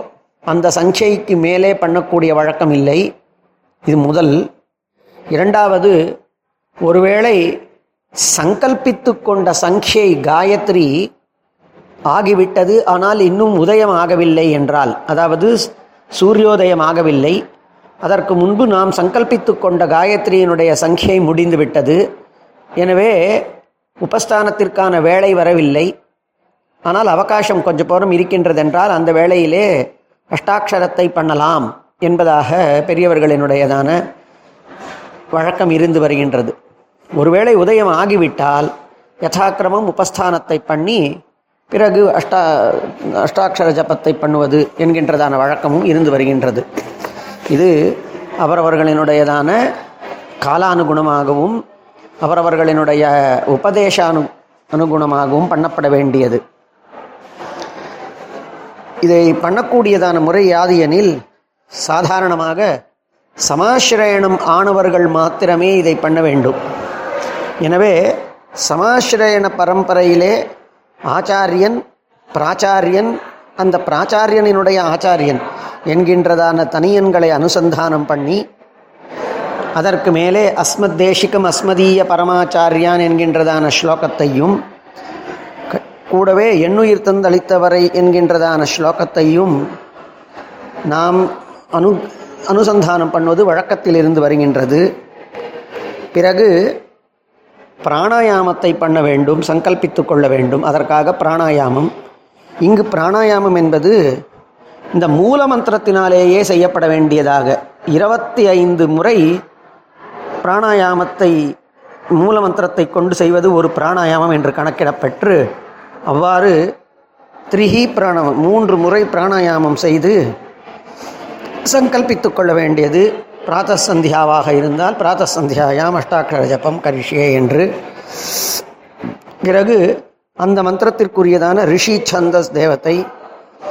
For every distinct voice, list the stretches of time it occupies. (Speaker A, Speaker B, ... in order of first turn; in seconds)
Speaker A: 0.5-3.0, 3.9-4.4, 5.3-6.0, 6.8-7.4, 8.3-10.9, 12.1-17.4, 18.0-22.0, 22.8-23.4, 24.0-25.9, 26.9-29.7, 30.3-34.0, 35.3-36.5, 37.2-38.7, 39.2-41.0, 41.7-46.6, 48.4-49.6, 50.4-51.6, 52.2-56.4, 59.0-61.1, 61.8-62.7, 63.5-66.6, 67.6-68.0, 68.7-70.3, 71.1-71.8, 72.3-78.4, 79.8-84.6, 85.7-89.5, 90.9-94.8, 96.1-96.5, 97.8-101.9, 102.6-104.0, 105.0-109.2, 110.4-111.3, 112.2-115.4, 116.1-116.6, 117.5-120.2, 121.7-127.7, 128.2-128.6, 129.4-129.8, 130.4-133.0